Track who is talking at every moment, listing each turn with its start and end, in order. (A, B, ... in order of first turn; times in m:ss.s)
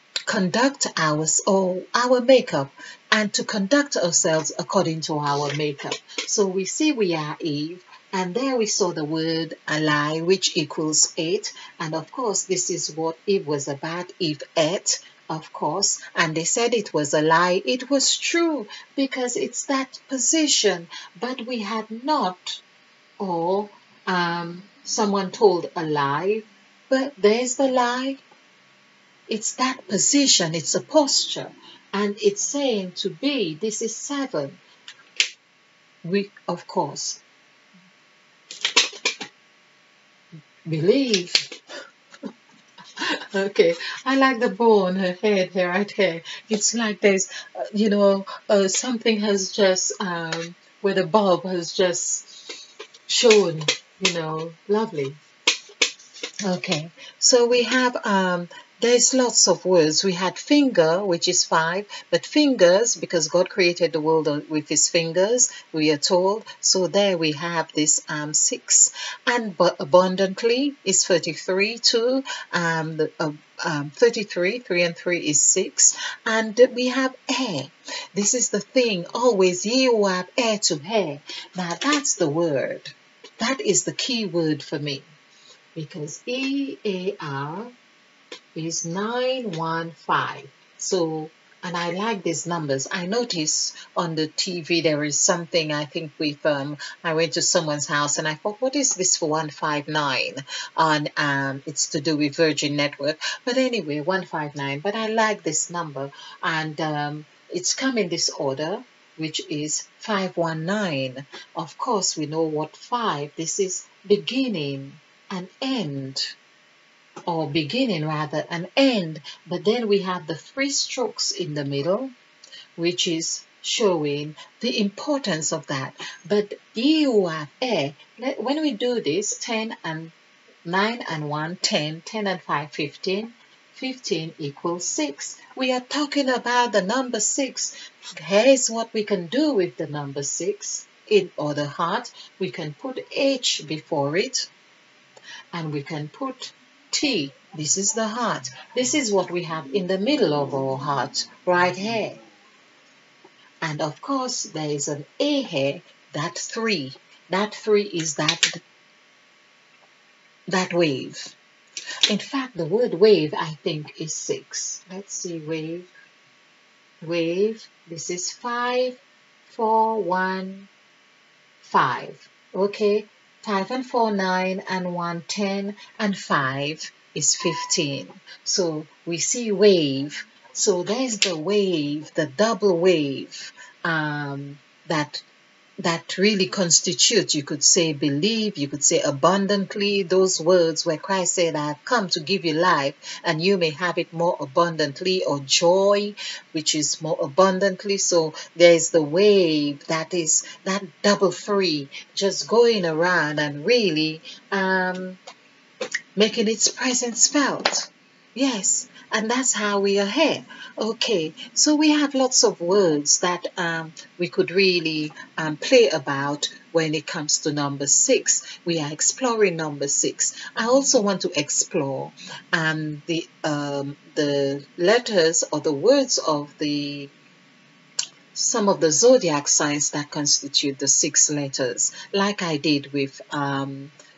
0:00.3-0:22.6 A
0:23.2-0:28.2 A
0:29.3-0:34.6 A
0:36.0-0:37.2 A
0:40.7-0:41.6 A
0:43.0-0:55.2 A
0:56.4-1:25.1 A
1:25.7-1:27.7 A
1:28.5-1:56.3 A
1:57.3-2:02.1 A
2:02.8-2:10.1 A
2:10.6-2:24.5 A
2:25.5-2:32.2 A
2:33.6-2:38.6 A
2:40.5-2:41.3 A
2:42.1-2:45.9 A
2:47.0-2:50.7 A
2:51.6-3:05.2 A
3:05.8-3:25.2 A
3:26.2-3:47.1 A
3:48.3-3:53.9 A